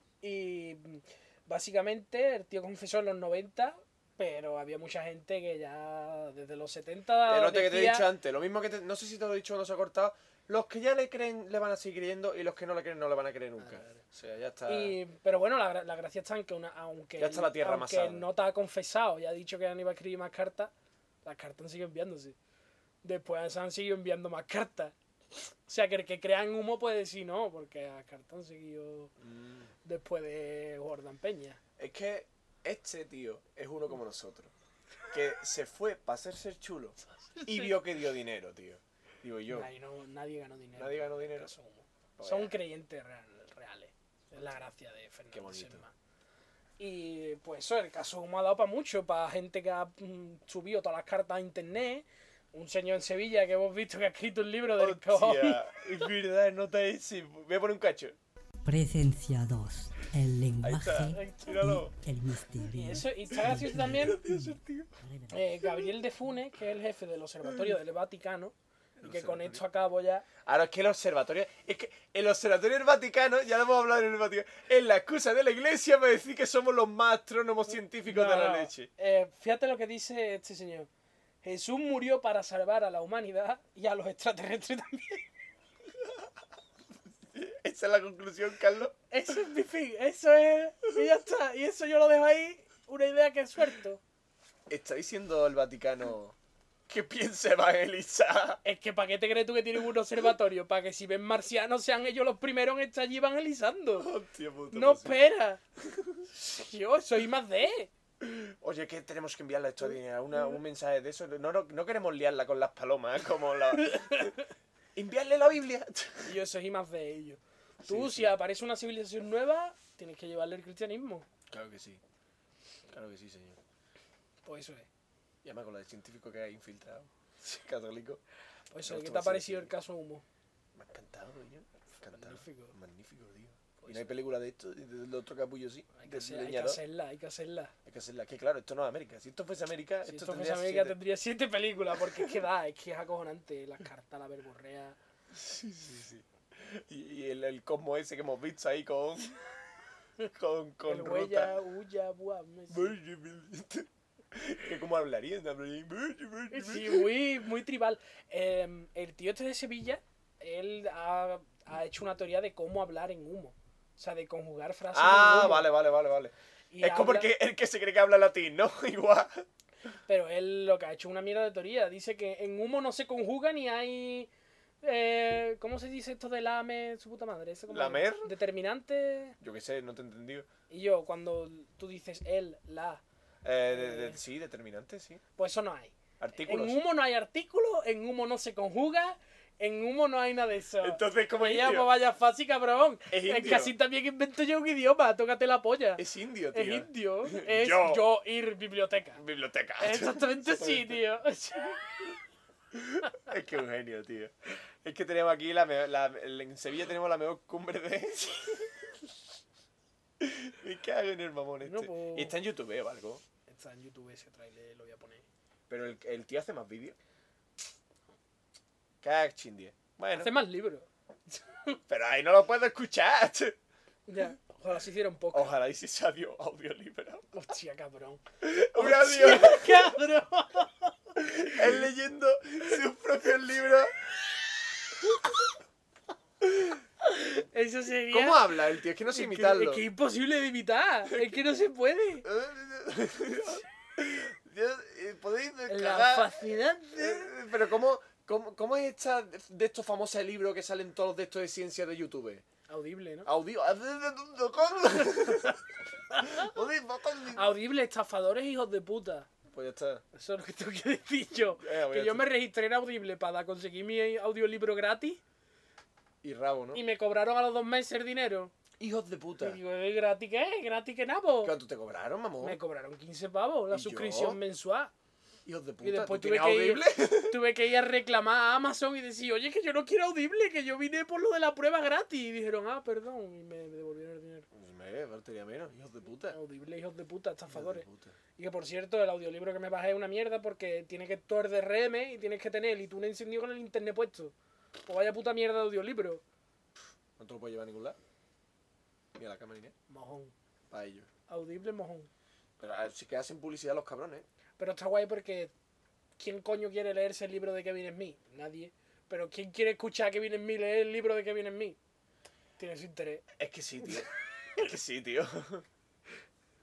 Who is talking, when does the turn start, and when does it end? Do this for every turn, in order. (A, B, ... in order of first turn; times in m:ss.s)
0:00.2-0:08.1 A
0:07.3-0:15.0 B
0:13.6-0:14.0 A
0:14.7-0:20.7 A
0:17.2-0:18.3 B
0:21.2-0:22.4 A
0:23.0-0:29.1 A
0:29.2-0:29.7 B
0:29.8-0:31.6 A
0:31.8-0:34.5 B
0:35.1-0:39.7 B
0:37.3-0:37.8 A
0:39.5-0:45.9 A
0:40.8-0:41.5 B
0:42.2-0:42.5 B
0:45.3-0:45.8 B
0:46.8-0:55.6 A
0:54.8-0:58.2 B
0:58.6-1:05.7 C
1:00.6-1:01.9 B
1:02.7-1:04.2 A
1:03.7-1:04.9 B
1:05.3-1:10.3 A
1:09.0-1:09.6 B
1:10.4-1:18.9 B
1:18.1-1:20.9 A
1:21.4-1:25.3 A
1:26.0-1:26.3 B
1:27.3-1:29.0 B
1:29.1-1:34.0 A
1:34.7-1:36.4 B
1:36.9-1:38.6 B
1:38.6-1:44.1 A
1:44.0-1:45.2 B
1:44.7-1:45.6 A
1:45.8-1:46.2 B
1:46.3-1:47.9 A
1:48.2-1:54.3 B
1:53.8-1:54.4 A
1:55.0-1:56.4 B
1:56.2-2:01.3 A
1:57.8-1:58.4 B
2:01.5-2:02.0 B
2:02.9-2:03.6 B
2:04.5-2:04.9 A
2:05.4-2:08.2 B
2:08.7-2:10.2 A
2:08.8-2:09.7 B
2:10.8-2:16.8 B
2:12.1-2:12.7 A
2:13.8-2:14.1 A
2:16.0-2:17.7 A
2:17.8-2:21.0 B
2:20.1-2:25.0 A
2:22.1-2:22.4 B
2:25.3-2:29.4 B
2:30.3-2:31.5 B
2:30.9-2:33.0 A
2:32.7-2:37.1 B
2:36.5-2:45.7 A
2:44.9-2:49.5 B
2:46.7-2:47.3 A
2:50.1-2:54.3 A
2:54.8-2:59.4 A
2:57.7-2:58.3 B
2:59.4-3:00.5 B
3:00.7-3:03.0 A
3:03.4-3:05.2 B
3:03.7-3:04.2 A
3:05.4-3:19.2 A
3:06.2-3:06.8 B
3:10.8-3:11.9 B
3:13.1-3:13.7 B
3:16.0-3:18.0 B
3:19.2-3:21.0 B
3:19.8-3:21.9 A
3:22.7-3:28.7 B
3:30.2-3:33.2 B
3:31.6-3:32.3 A
3:33.5-3:35.2 A
3:35.7-3:37.0 B
3:39.0-3:40.3 B
3:40.2-3:41.8 A
3:41.9-3:43.6 B
3:44.1-3:45.5 A
3:45.3-3:47.3 B
3:47.3-3:51.6 A
3:48.4-3:50.0 B
3:51.2-3:53.9 B
3:57.0-3:58.6 A
3:58.1-3:59.8 B
3:59.1-4:02.3 A
4:02.2-4:12.4 B
4:05.7-4:07.3 A
4:12.7-4:13.3 A
4:13.3-4:15.6 B
4:16.2-4:17.5 B
4:17.4-4:19.3 A
4:19.5-4:20.0 B
4:20.1-4:25.2 A
4:21.6-4:22.3 B
4:26.2-4:26.8 B
4:26.7-4:28.5 A
4:28.8-4:29.6 B
4:29.4-4:31.6 A
4:31.4-4:32.6 B
4:32.4-4:34.9 A
4:33.7-4:34.4 B
4:35.5-4:37.4 B
4:35.8-4:44.5 A
4:44.5-4:46.4 B
4:46.3-4:54.3 A
4:47.5-4:48.2 B
4:54.9-4:56.2 A
4:57.2-4:58.0 B
4:59.2-4:59.7 B
4:59.9-5:00.3 A
5:00.7-5:01.1 B
5:01.3-5:02.1 A
5:02.6-5:04.2 B
5:04.6-5:05.5 A
5:06.2-5:11.8 A
5:12.6-5:13.2 A
5:13.4-5:15.6 B